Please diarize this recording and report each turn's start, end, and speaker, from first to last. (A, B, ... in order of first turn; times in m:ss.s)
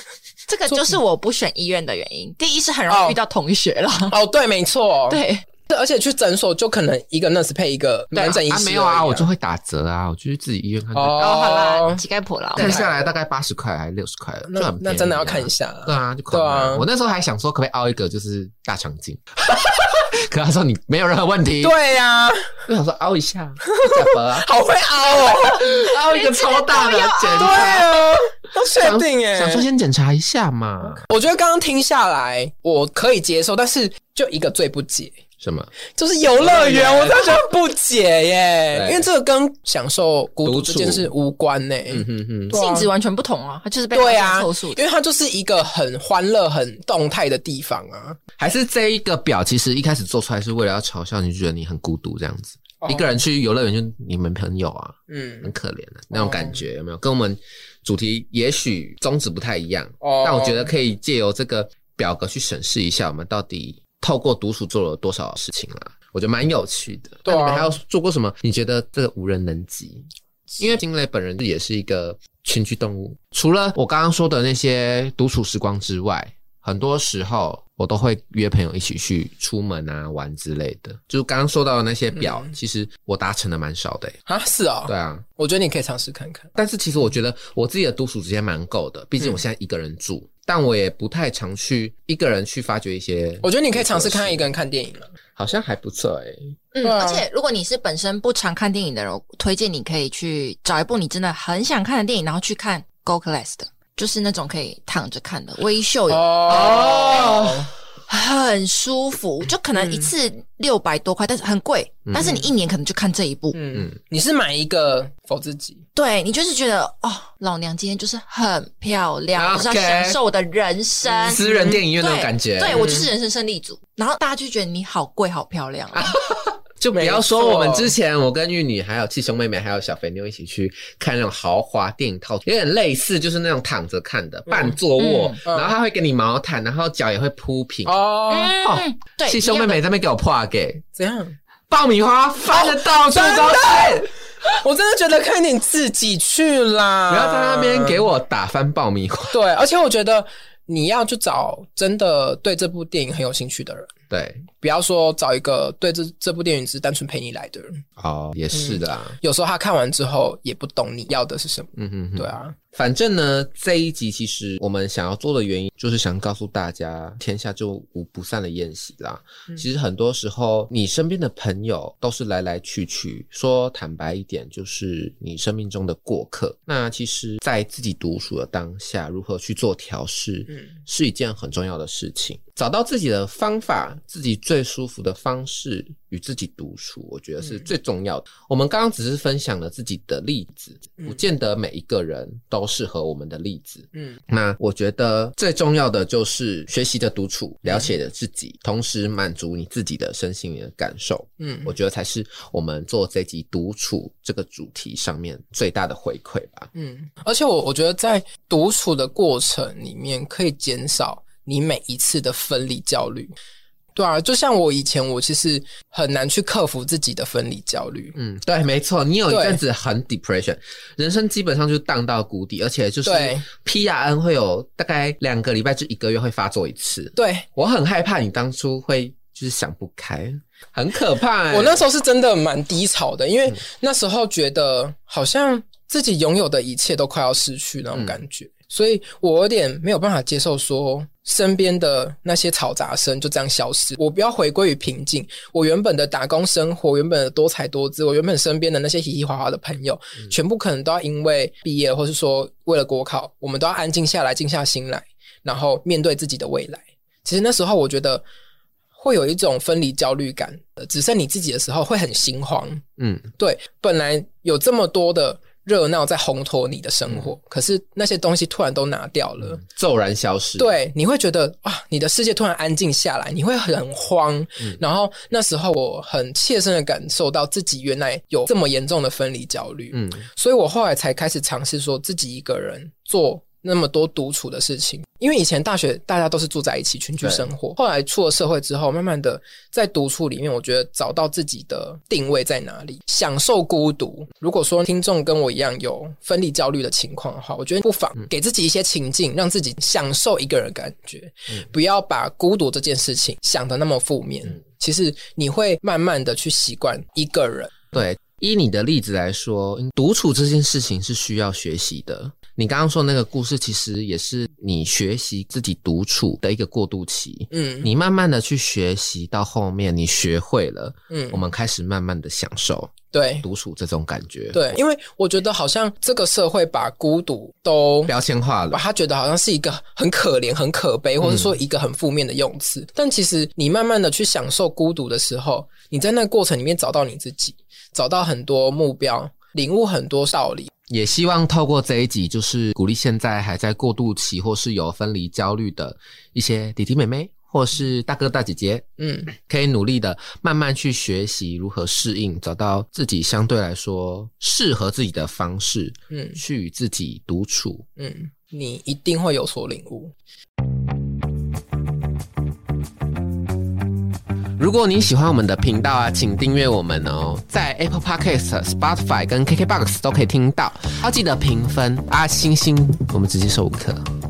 0:00.5-0:04.2 A
0:02.9-0:03.2 B
0:04.1-0:09.3 B
0:05.1-0:05.4 A
0:08.2-0:11.4 C
0:10.9-0:12.0 B
0:11.2-0:12.8 A
0:12.6-0:13.0 B
0:12.6-0:21.7 C
0:14.5-0:16.8 B
0:21.6-0:22.5 B
0:22.7-0:24.5 C
0:23.7-0:25.8 B
0:25.3-0:28.0 C
0:25.7-0:27.9 A
0:27.4-0:29.7 B
0:28.8-0:31.0 C
0:31.0-0:35.2 B
0:35.4-0:35.7 C
0:35.9-0:42.9 B
0:36.4-0:37.4 C
0:38.7-0:39.1 C
0:40.4-0:41.1 C
0:41.9-0:42.6 C
0:42.5-0:44.8 A
0:43.9-0:48.2 B
0:48.4-1:10.1 C
0:52.8-0:53.2 B
0:55.1-0:55.5 B
0:56.1-0:56.6 B
1:00.0-1:00.7 B
1:07.3-1:07.7 B
1:10.6-1:24.2 C
1:24.3-1:26.5 B
1:24.9-1:25.2 C
1:26.6-1:34.4 C
1:33.4-1:35.1 B
1:35.4-1:36.5 C
1:36.7-1:47.5 A
1:36.8-1:37.2 B
1:46.1-1:47.7 B
1:46.5-1:47.7 C
1:48.1-1:53.6 A
1:52.1-1:52.4 C
1:53.5-1:55.8 B
1:56.0-2:06.1 A
1:59.4-2:00.2 C
2:01.1-2:03.0 C
2:01.4-2:01.8 B
2:02.6-2:03.1 B
2:05.9-2:18.0 C
2:07.0-2:07.9 B
2:15.0-2:15.4 A
2:15.5-2:15.7 B
2:17.9-2:18.6 B
2:18.3-2:19.8 A
2:18.6-2:20.8 C
2:21.0-2:21.4 B
2:21.7-2:24.1 C
2:22.5-2:28.0 B
2:27.1-2:29.4 C
2:29.3-2:33.9 B
2:34.1-2:34.5 C
2:34.6-2:37.8 B
2:38.0-2:39.2 C
2:38.5-2:42.6 B
2:41.8-3:26.7 C
3:14.0-3:14.2 B
3:21.4-3:21.7 B
3:26.8-3:33.3 B
3:34.0-3:38.2 B
3:38.2-3:51.8 C
3:39.3-3:39.6 B
3:43.0-3:43.4 B
3:47.2-3:47.5 B
3:51.5-4:18.2 B
3:57.9-3:58.2 C
4:19.0-4:22.8 B
4:23.0-4:23.2 C
4:23.4-4:29.6 B
4:29.5-4:30.7 C
4:30.6-5:07.9 B
4:39.9-4:40.3 C
4:47.2-4:47.5 C
5:07.9-5:24.8 C
5:17.5-5:17.9 B
5:21.1-5:21.4 B
5:23.1-5:23.4 B
5:24.5-5:28.1 B
5:28.1-5:28.8 C
5:28.7-5:40.7 B
5:31.2-5:31.6 C
5:40.9-5:57.9 C
5:49.0-5:49.3 B
5:56.1-5:56.4 B
5:58.0-6:00.1 B
6:04.6-6:14.1 C